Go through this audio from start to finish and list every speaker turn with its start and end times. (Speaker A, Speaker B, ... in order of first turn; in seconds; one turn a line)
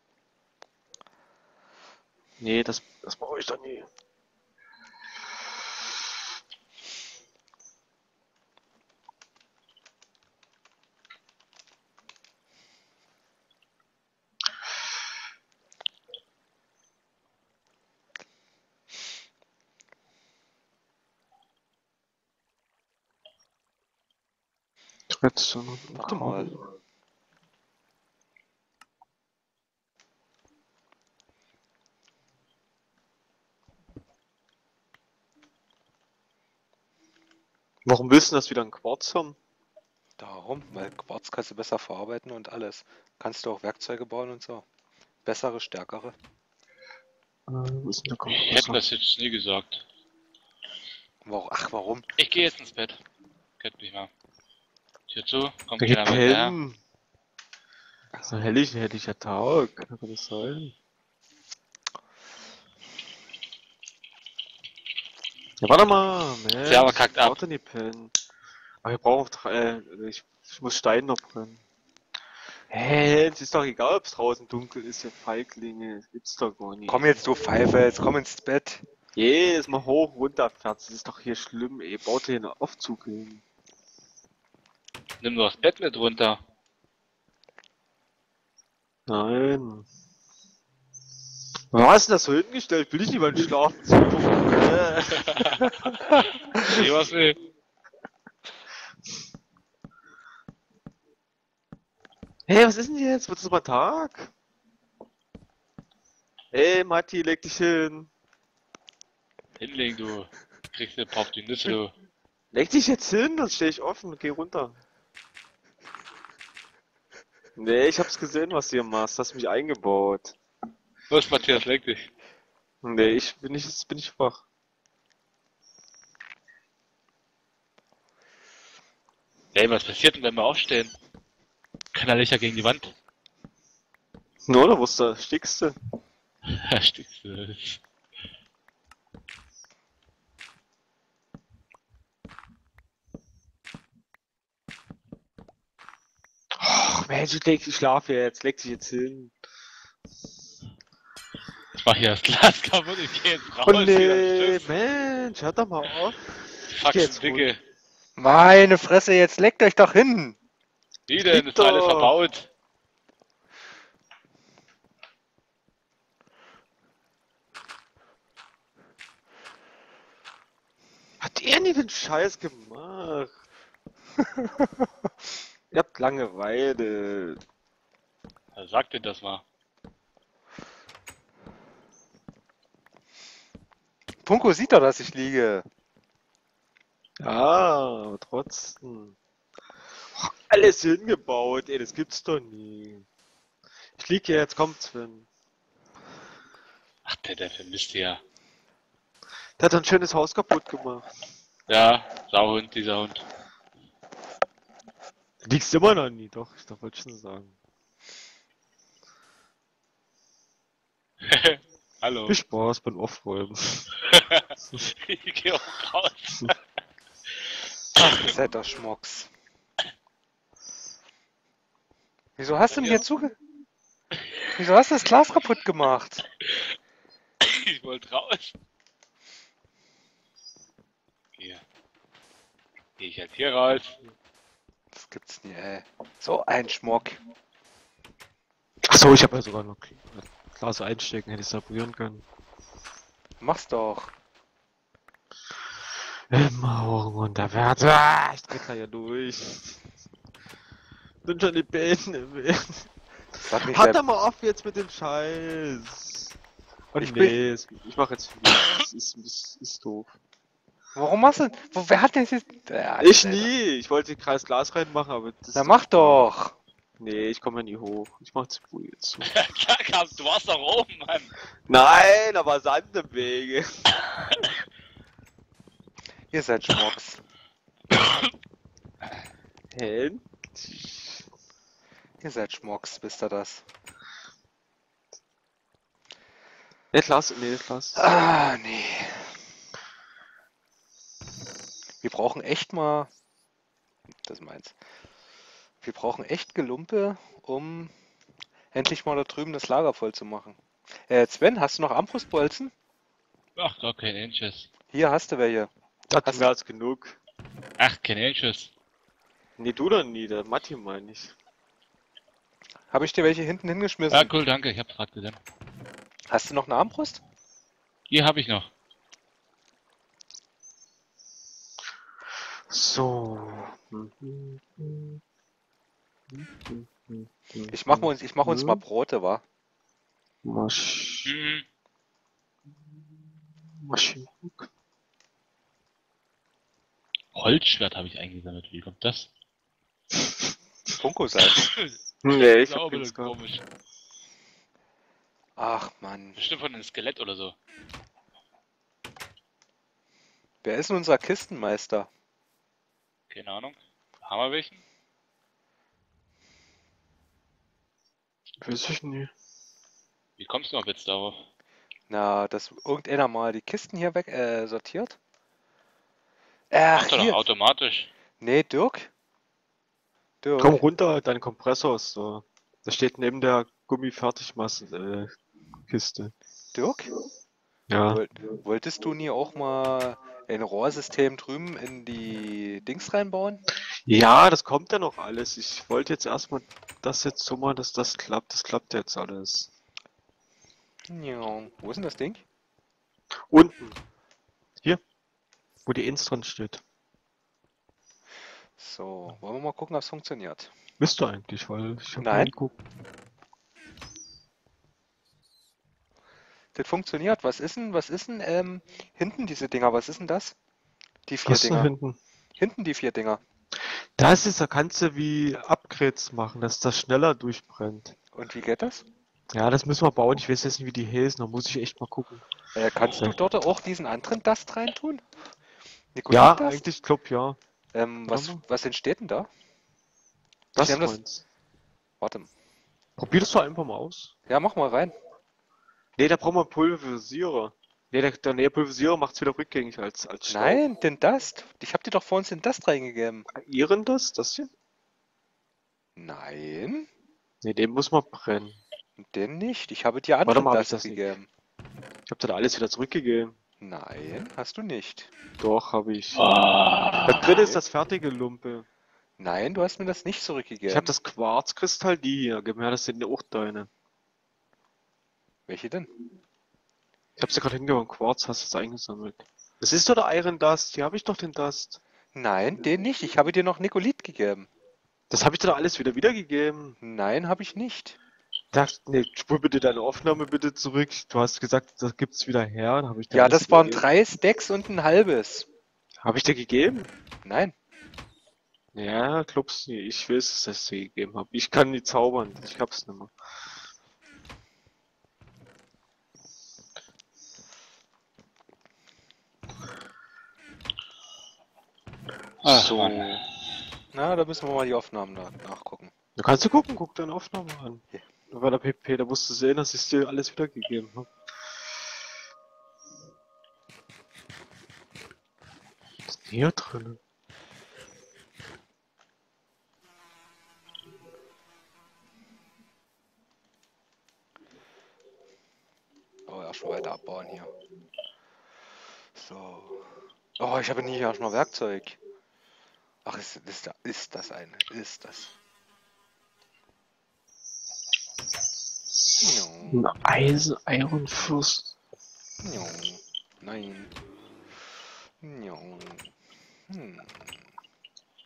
Speaker A: 2.4-3.9
Speaker A: 25.1-26.6
Speaker B: 25.9-26.5
Speaker A: 37.8-39.4
Speaker B: 40.2-44.6
Speaker B: 45.2-46.1
Speaker A: 47.5-48.8
Speaker C: 48.3-49.8
Speaker B: 51.2-52.1
Speaker C: 52.2-53.0
Speaker C: 53.6-54.1
Speaker C: 55.1-56.5
Speaker A: 55.8-56.8
Speaker A: 58.1-60.7
Speaker A: 65.6-68.1
Speaker C: 66.6-67.4
Speaker A: 68.8-71.6
Speaker A: 72.7-77.2
Speaker B: 76.9-78.8
Speaker A: 79.2-83.4
Speaker C: 85.2-86.4
Speaker A: 89.1-89.9
Speaker A: 91.7-95.6
Speaker C: 95.3-95.7
Speaker C: 96.6-97.4
Speaker A: 102.5-104.3
Speaker A: 106.5-108.1
Speaker C: 109.6-111.9
Speaker A: 112.5-114.8
Speaker A: 117.5-120.4
Speaker C: 121.1-122.1
Speaker A: 122.8-124.4
Speaker C: 129.5-130.9
Speaker C: 131.9-132.9
Speaker A: 134.4-135.7
Speaker C: 136.5-137.8
Speaker A: 146.6-149.3
Speaker C: 151.7-154.7
Speaker A: 153.6-157.5
Speaker C: 156.7-157.6
Speaker B: 158.2-160.4
Speaker C: 161.1-162.5
Speaker A: 161.2-162.1
Speaker A: 171.2-173.3
Speaker A: 175.7-177.4
Speaker C: 178.5-179.4
Speaker B: 184.2-185.6
Speaker A: 187.2-189.1
Speaker A: 190.1-193.1
Speaker A: 194.0-195.3
Speaker C: 197.0-198.2
Speaker A: 199.6-201.1
Speaker C: 201.7-203.2
Speaker A: 205.4-207.6
Speaker C: 211.2-212.3
Speaker A: 212.3-213.9
Speaker C: 214.1-216.6
Speaker B: 217.9-219.3
Speaker B: 222.4-223.3
Speaker C: 222.7-223.0
Speaker B: 224.6-226.2
Speaker C: 227.4-228.6
Speaker C: 231.4-231.6
Speaker C: 233.0-234.0
Speaker B: 234.9-237.2
Speaker A: 238.8-242.2
Speaker B: 243.4-244.1
Speaker A: 246.3-249.8
Speaker A: 251.2-252.9
Speaker B: 253.3-254.0
Speaker A: 253.6-256.3
Speaker A: 256.9-260.1
Speaker B: 256.9-257.4
Speaker B: 260.9-263.5
Speaker A: 263.0-266.3
Speaker B: 265.5-266.6
Speaker A: 267.0-269.3
Speaker C: 269.2-271.3
Speaker A: 271.7-273.7
Speaker B: 276.3-277.2
Speaker C: 277.9-278.3
Speaker A: 279.7-281.2
Speaker B: 282.2-283.6
Speaker A: 286.9-288.1
Speaker B: 287.9-289.3
Speaker B: 292.0-293.1
Speaker B: 294.2-294.8
Speaker B: 295.8-297.9
Speaker B: 298.7-302.7
Speaker C: 303.6-304.7
Speaker B: 304.9-305.7
Speaker A: 306.1-307.2
Speaker B: 306.2-306.5
Speaker C: 307.8-308.7
Speaker A: 309.6-311.3
Speaker B: 312.9-314.3
Speaker C: 314.1-315.4
Speaker B: 316.3-317.2
Speaker C: 318.1-318.7
Speaker A: 322.7-325.2
Speaker A: 326.3-328.8
Speaker B: 327.7-329.4
Speaker A: 330.4-331.3
Speaker C: 331.2-331.6
Speaker A: 333.8-334.7
Speaker C: 337.3-339.3
Speaker B: 341.0-341.7
Speaker C: 341.5-343.6
Speaker A: 342.2-343.4
Speaker B: 345.6-346.4
Speaker C: 346.4-347.6
Speaker B: 350.6-352.1
Speaker C: 353.3-354.8
Speaker A: 358.6-359.3
Speaker C: 360.4-361.4
Speaker B: 362.1-365.2
Speaker B: 366.7-367.4
Speaker C: 366.9-368.1
Speaker B: 368.4-369.1
Speaker B: 370.4-370.8
Speaker A: 370.6-375.3
Speaker A: 375.9-376.3
Speaker B: 376.7-377.1
Speaker A: 377.9-378.2
Speaker B: 378.1-383.6
Speaker A: 384.1-389.7
Speaker B: 391.1-392.4
Speaker A: 393.5-394.0
Speaker A: 395.9-396.8
Speaker B: 398.8-400.7
Speaker A: 401.0-402.7
Speaker B: 402.2-402.5
Speaker B: 406.7-410.6
Speaker B: 411.3-411.9
Speaker A: 411.4-412.2
Speaker B: 412.6-413.4
Speaker A: 413.9-418.1
Speaker B: 418.3-419.0
Speaker A: 419.5-422.4
Speaker B: 422.7-425.2
Speaker B: 426.1-426.9
Speaker A: 426.3-427.6
Speaker B: 427.9-429.5
Speaker A: 428.3-428.6
Speaker A: 430.7-431.4
Speaker B: 430.8-431.2
Speaker B: 432.2-432.5
Speaker A: 433.2-434.3
Speaker B: 434.5-435.1
Speaker A: 436.2-440.8
Speaker B: 440.5-443.5
Speaker A: 443.5-444.7
Speaker B: 446.2-447.1
Speaker A: 447.6-448.8
Speaker B: 449.2-451.5
Speaker A: 450.4-451.3
Speaker A: 452.3-453.6
Speaker B: 453.8-455.3
Speaker A: 455.6-456.4
Speaker C: 456.4-457.8
Speaker A: 457.2-458.9
Speaker B: 459.4-461.1
Speaker A: 460.9-463.9
Speaker B: 465.7-466.1
Speaker A: 467.4-472.0
Speaker B: 472.3-474.7
Speaker A: 475.3-477.0
Speaker B: 477.0-478.2
Speaker A: 478.7-484.0
Speaker B: 483.3-485.7
Speaker A: 486.2-487.1
Speaker B: 487.4-487.7
Speaker A: 488.9-493.3
Speaker C: 502.6-503.3
Speaker A: 502.6-503.4
Speaker B: 504.1-506.1
Speaker A: 506.4-511.3
Speaker A: 516.3-517.2
Speaker B: 526.5-527.7
Speaker B: 529.3-530.0
Speaker B: 530.6-532.2
Speaker B: 533.2-535.5
Speaker A: 539.2-541.9
Speaker B: 539.4-540.1
Speaker B: 542.6-544.1
Speaker B: 545.4-546.2
Speaker B: 546.9-547.5